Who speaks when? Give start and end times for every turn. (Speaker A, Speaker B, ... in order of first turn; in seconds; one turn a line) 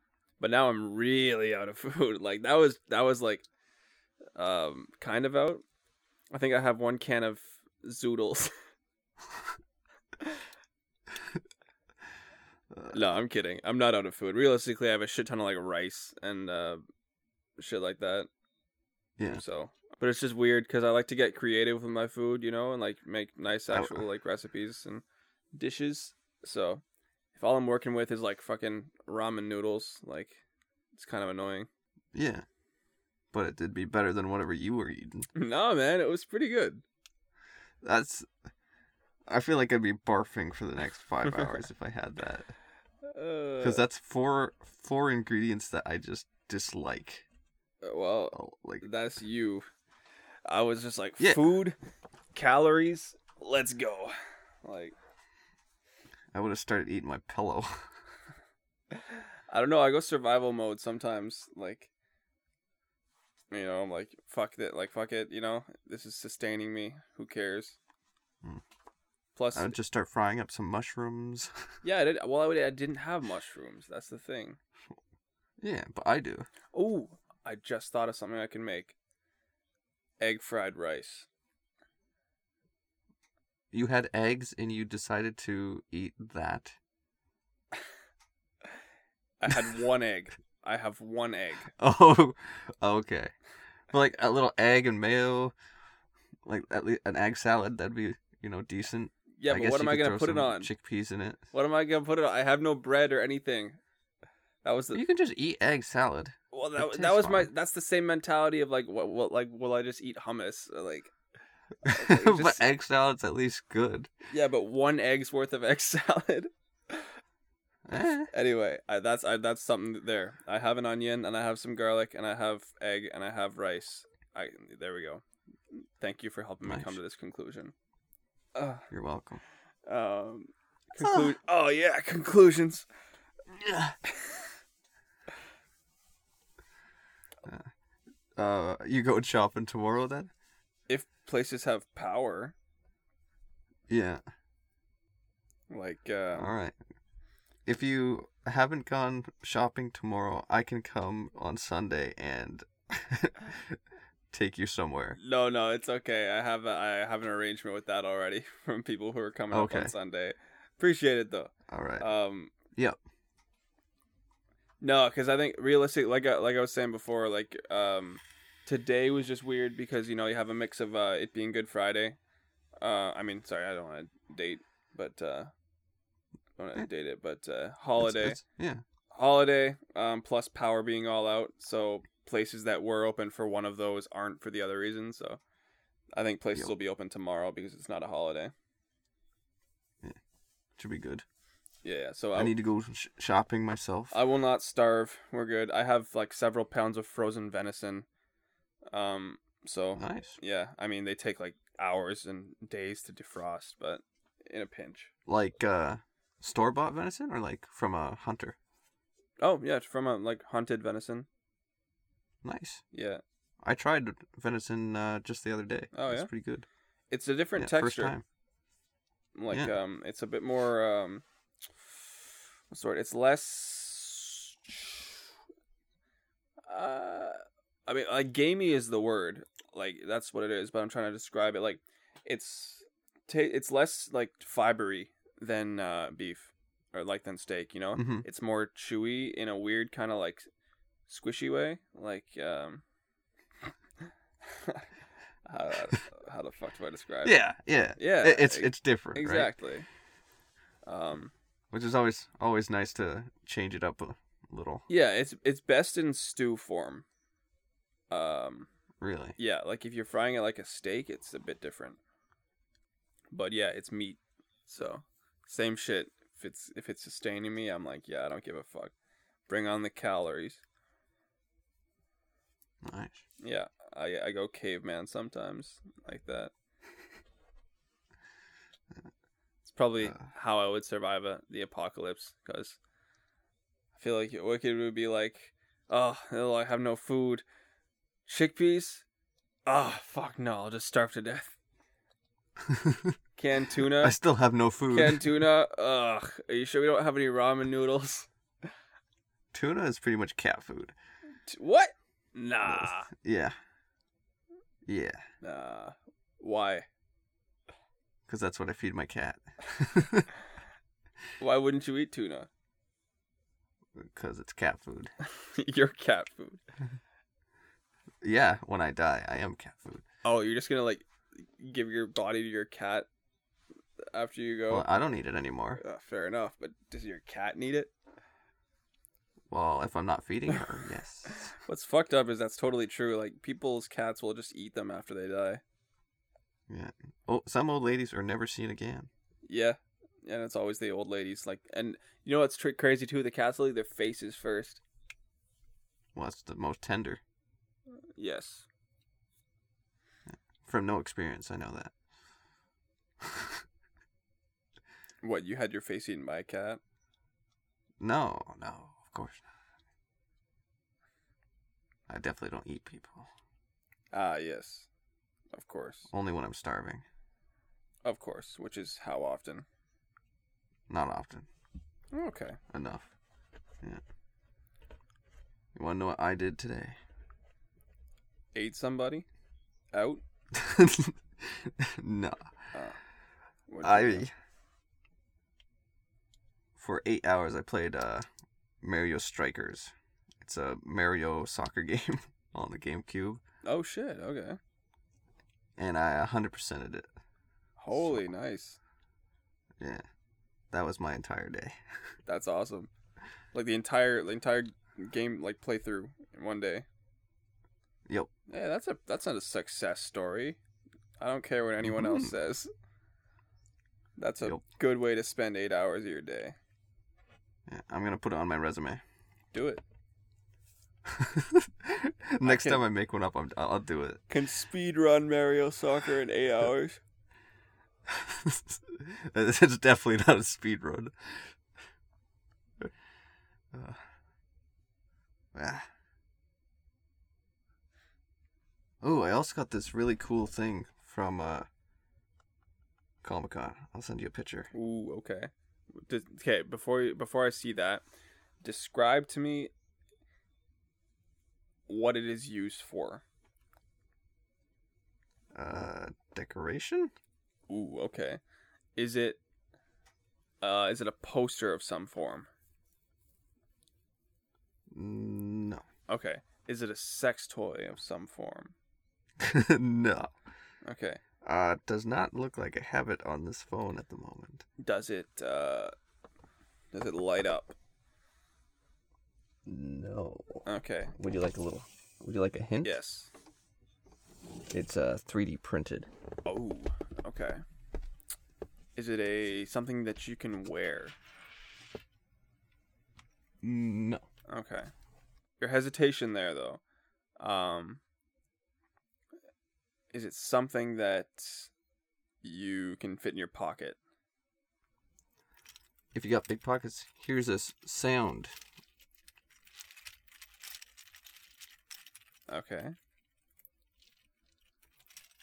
Speaker A: 0.4-3.4
Speaker A: 4.3-5.6
Speaker A: 6.3-8.5
Speaker B: 12.7-13.0
Speaker A: 12.9-16.8
Speaker A: 17.6-18.3
Speaker A: 19.3-26.8
Speaker B: 23.7-24.0
Speaker A: 27.3-30.4
Speaker A: 30.9-31.7
Speaker B: 32.1-32.5
Speaker B: 33.3-35.3
Speaker A: 35.3-36.8
Speaker B: 37.8-38.3
Speaker B: 39.3-42.5
Speaker A: 43.1-43.8
Speaker B: 43.6-47.2
Speaker A: 47.8-49.7
Speaker B: 48.3-48.8
Speaker A: 50.5-51.8
Speaker B: 51.2-51.5
Speaker A: 52.3-54.9
Speaker B: 56.3-57.9
Speaker A: 59.0-61.9
Speaker A: 63.5-67.8
Speaker A: 69.3-69.7
Speaker B: 69.5-71.7
Speaker A: 71.8-74.6
Speaker B: 75.6-76.5
Speaker A: 76.7-78.9
Speaker A: 80.2-81.3
Speaker B: 83.7-86.8
Speaker A: 89.4-91.7
Speaker B: 91.8-93.3
Speaker B: 93.9-95.5
Speaker B: 96.4-101.4
Speaker A: 99.4-100.7
Speaker A: 101.5-103.8
Speaker A: 104.6-105.0
Speaker B: 104.9-107.5
Speaker A: 106.5-111.1
Speaker A: 111.8-112.7
Speaker B: 111.8-114.1
Speaker A: 114.3-117.2
Speaker B: 117.8-118.3
Speaker A: 118.3-127.7
Speaker B: 126.6-127.0
Speaker A: 128.5-128.9
Speaker B: 128.9-129.4
Speaker A: 129.8-132.8
Speaker B: 131.0-131.3
Speaker B: 133.5-133.9
Speaker B: 138.4-140.3
Speaker A: 140.9-142.5
Speaker B: 143.9-144.2
Speaker A: 145.7-146.5
Speaker B: 146.3-146.8
Speaker B: 147.7-153.8
Speaker B: 154.3-155.2
Speaker A: 155.2-162.5
Speaker B: 159.5-159.9
Speaker B: 161.7-162.1
Speaker A: 164.8-172.2
Speaker A: 172.8-175.5
Speaker A: 176.6-178.4
Speaker B: 178.0-178.8
Speaker A: 179.1-185.4
Speaker A: 186.1-188.5
Speaker B: 190.8-191.2
Speaker A: 191.8-192.5
Speaker B: 192.3-194.1
Speaker A: 194.1-198.1
Speaker A: 198.9-205.1
Speaker B: 200.0-200.4
Speaker B: 205.3-208.6
Speaker A: 209.4-211.3
Speaker B: 212.4-212.8
Speaker A: 212.9-213.2
Speaker B: 213.6-216.7
Speaker A: 215.9-216.3
Speaker A: 217.1-218.2
Speaker B: 217.6-218.2
Speaker A: 219.3-221.2
Speaker A: 222.7-225.1
Speaker A: 226.7-240.4
Speaker B: 237.9-238.2
Speaker A: 241.1-242.8
Speaker A: 244.4-244.8
Speaker A: 245.4-247.4
Speaker B: 247.2-249.5
Speaker A: 248.0-249.9
Speaker A: 250.8-251.3
Speaker B: 251.7-254.8
Speaker A: 254.9-257.0
Speaker A: 258.1-258.7
Speaker B: 259.0-259.4
Speaker A: 259.4-262.0
Speaker A: 263.3-268.9
Speaker A: 269.5-270.6
Speaker B: 272.8-273.2
Speaker A: 273.4-276.5
Speaker A: 279.6-282.8
Speaker A: 283.9-287.4
Speaker A: 288.2-289.0
Speaker A: 289.6-291.6
Speaker B: 292.6-293.1
Speaker A: 293.4-294.1
Speaker B: 293.9-295.4
Speaker A: 294.9-298.3
Speaker B: 299.5-300.9
Speaker A: 301.4-303.1
Speaker B: 302.6-303.6
Speaker B: 304.9-305.2
Speaker A: 305.4-306.9
Speaker B: 308.3-310.3
Speaker A: 311.4-312.5
Speaker B: 313.9-315.1
Speaker A: 315.2-316.6
Speaker B: 318.2-320.0
Speaker A: 320.2-323.1
Speaker A: 324.1-324.9
Speaker B: 324.7-325.8
Speaker A: 325.8-327.9
Speaker B: 329.5-331.5
Speaker A: 331.6-335.6
Speaker B: 336.7-339.1
Speaker A: 339.4-344.8
Speaker B: 346.1-347.2
Speaker A: 348.1-348.6
Speaker B: 350.3-351.9
Speaker B: 353.2-353.6
Speaker A: 355.2-356.8
Speaker B: 358.0-359.4
Speaker B: 362.1-363.3
Speaker A: 364.1-364.9
Speaker A: 365.5-366.1
Speaker B: 366.1-367.0
Speaker A: 368.0-369.6
Speaker B: 370.9-371.5
Speaker A: 372.1-372.6
Speaker B: 372.7-373.1
Speaker B: 375.7-377.0
Speaker A: 378.5-379.3
Speaker A: 379.9-380.2
Speaker B: 380.5-382.4
Speaker A: 382.7-383.0
Speaker A: 383.7-384.2
Speaker B: 383.8-384.3
Speaker B: 386.8-388.3
Speaker B: 388.8-393.4
Speaker A: 393.6-394.6
Speaker B: 395.8-397.1
Speaker A: 397.8-398.8
Speaker B: 397.9-398.2
Speaker B: 399.8-400.0
Speaker B: 400.7-401.8
Speaker A: 402.2-402.9
Speaker A: 403.5-406.9
Speaker A: 408.5-410.6
Speaker A: 411.2-412.7
Speaker B: 411.8-412.3
Speaker A: 414.2-416.6
Speaker B: 417.7-419.0
Speaker A: 419.5-419.8
Speaker B: 421.1-424.2
Speaker A: 422.4-422.8
Speaker A: 424.3-427.0
Speaker B: 428.1-431.6
Speaker B: 433.7-434.0
Speaker B: 435.5-435.9
Speaker B: 439.0-441.7
Speaker B: 443.2-444.7
Speaker A: 444.7-448.0
Speaker A: 448.6-449.7
Speaker A: 451.9-453.2
Speaker B: 455.5-457.1
Speaker A: 457.7-458.4
Speaker A: 458.9-459.4
Speaker A: 460.6-462.5
Speaker B: 464.9-465.8
Speaker A: 466.1-468.7
Speaker B: 469.4-470.3
Speaker A: 470.8-471.2
Speaker B: 471.4-474.6
Speaker A: 474.8-475.9
Speaker A: 476.9-477.7
Speaker B: 479.6-480.6
Speaker A: 480.6-481.1
Speaker B: 481.2-483.0
Speaker A: 482.8-483.3
Speaker B: 484.7-486.1
Speaker A: 486.4-487.6
Speaker A: 488.9-491.1
Speaker B: 493.6-494.2
Speaker A: 494.5-494.9
Speaker A: 495.6-496.8
Speaker A: 497.4-498.0
Speaker A: 500.1-501.7
Speaker A: 502.4-504.0
Speaker B: 506.1-508.5
Speaker A: 512.5-512.9